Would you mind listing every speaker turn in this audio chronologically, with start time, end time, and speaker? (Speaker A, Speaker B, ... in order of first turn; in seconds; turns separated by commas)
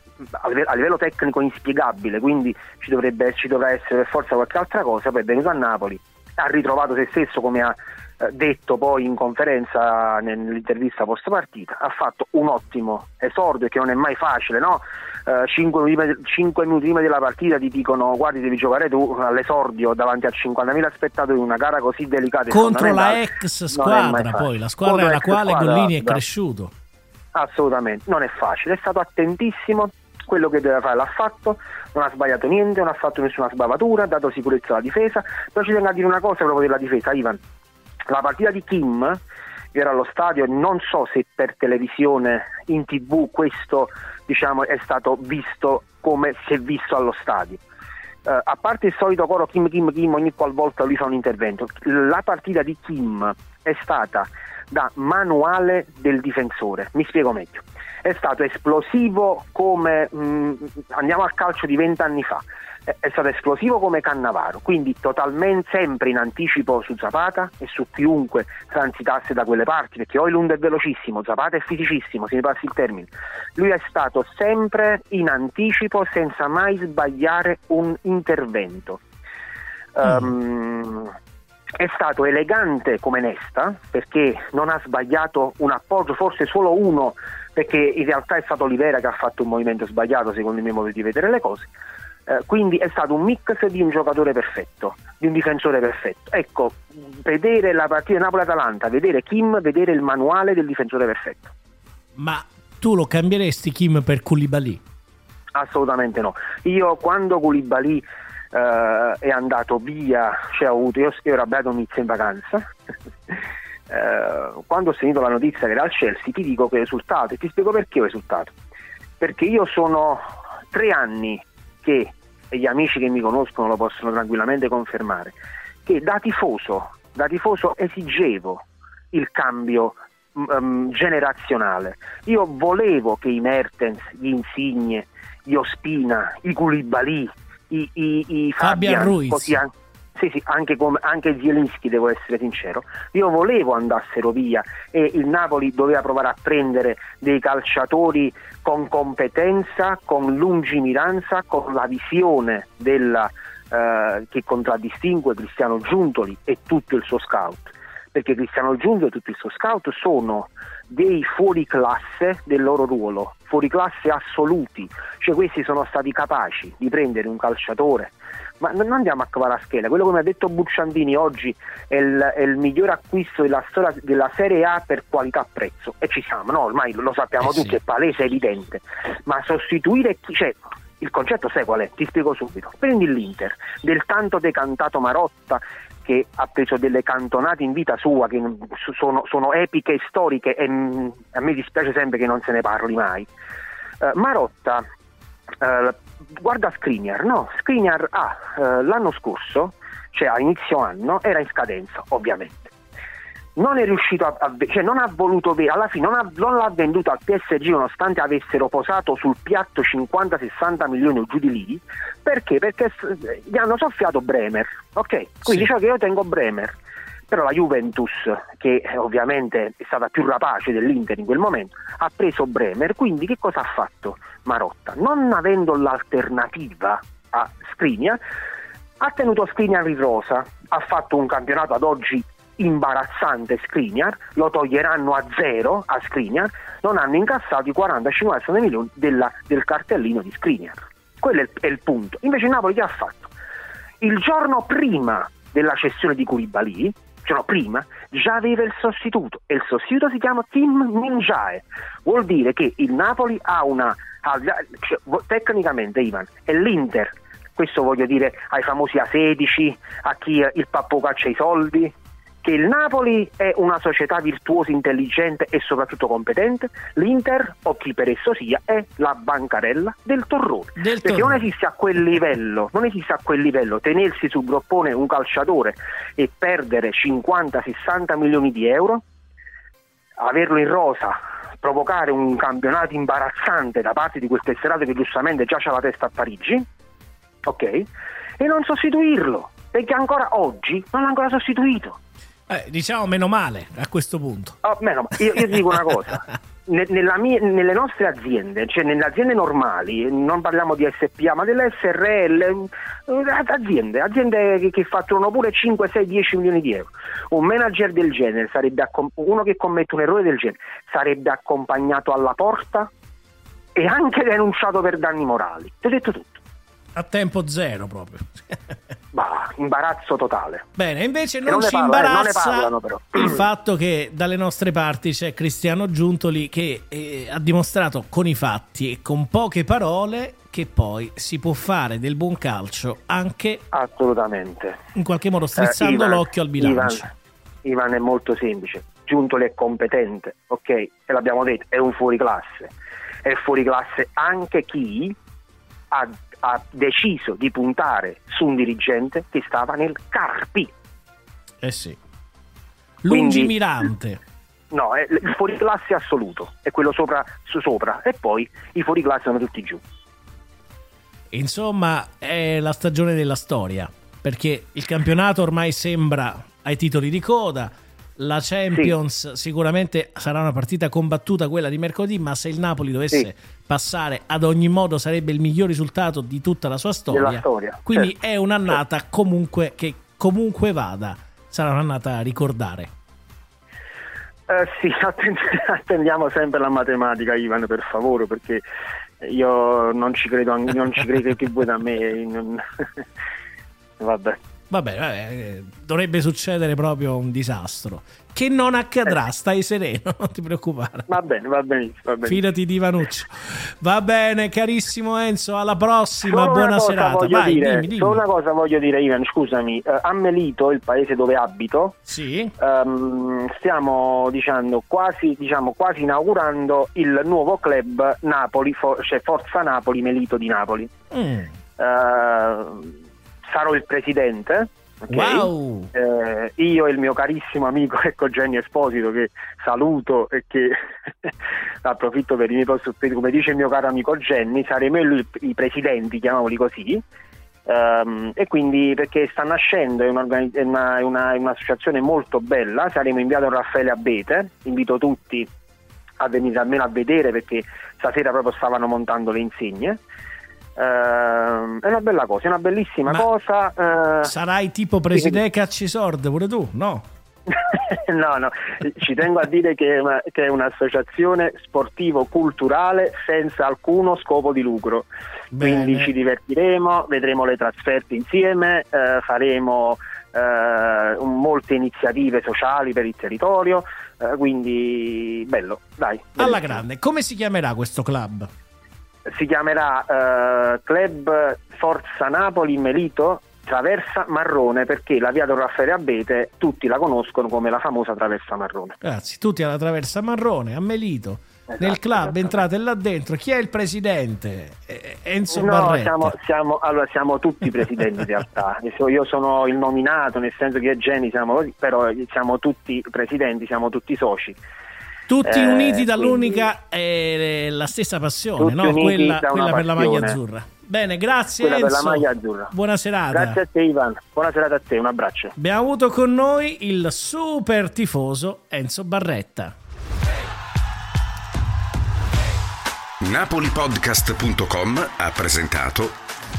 Speaker A: 0.3-26.2, Speaker B: 22.5-26.7, Speaker A: 27.3-37.4, Speaker A: 38.1-39.2, Speaker A: 39.7-47.6, Speaker A: 48.2-79.0, Speaker A: 80.0-81.1, Speaker A: 81.8-91.7, Speaker A: 92.3-101.5, Speaker B: 102.2-104.8, Speaker A: 105.5-112.7, Speaker A: 113.9-118.5, Speaker A: 119.2-193.3, Speaker B: 138.6-139.6, Speaker B: 177.4-177.8, Speaker A: 194.0-194.8, Speaker A: 195.6-202.7, Speaker A: 203.6-216.7, Speaker A: 217.3-228.2, Speaker A: 229.0-243.3, Speaker A: 244.0-279.0, Speaker B: 270.8-271.4, Speaker A: 280.2-286.6, Speaker A: 287.4-287.9, Speaker A: 288.4-292.0, Speaker B: 292.5-294.6, Speaker A: 294.6-312.9, Speaker A: 313.8-316.4, Speaker B: 316.9-318.8, Speaker A: 319.1-320.7, Speaker B: 320.8-333.6, Speaker A: 321.4-323.5, Speaker A: 333.7-334.8, Speaker B: 334.9-337.1, Speaker A: 335.6-337.1, Speaker A: 337.6-342.7, Speaker A: 343.2-345.2, Speaker A: 345.9-350.7, Speaker B: 351.6-352.0, Speaker B: 353.0-354.2, Speaker A: 353.1-353.6, Speaker A: 354.7-359.8, Speaker B: 361.3-382.9, Speaker A: 377.1-378.1, Speaker A: 384.5-388.6, Speaker A: 389.2-393.0, Speaker A: 394.0-394.4, Speaker B: 394.7-401.1, Speaker A: 401.1-402.4, Speaker B: 402.2-408.2, Speaker A: 406.2-411.9, Speaker B: 412.1-412.5, Speaker A: 412.6-420.9, Speaker B: 421.1-421.5, Speaker A: 421.8-422.9, Speaker A: 423.4-437.0, Speaker B: 425.1-425.9, Speaker A: 437.7-445.5, Speaker A: 446.2-450.0, Speaker A: 450.8-454.3, Speaker B: 454.2-457.1, Speaker A: 455.1-455.4, Speaker A: 457.5-465.1, Speaker B: 465.5-466.1, Speaker A: 465.6-476.8, Speaker B: 476.4-478.5, Speaker A: 479.3-489.0, Speaker B: 489.0-496.3, Speaker A: 491.7-492.6, Speaker A: 495.5-504.6, Speaker B: 505.3-513.6, Speaker A: 505.4-506.7, Speaker A: 508.6-510.4, Speaker A: 511.6-512.7, Speaker A: 513.3-515.6, Speaker B: 515.6-519.7, Speaker C: 523.2-526.1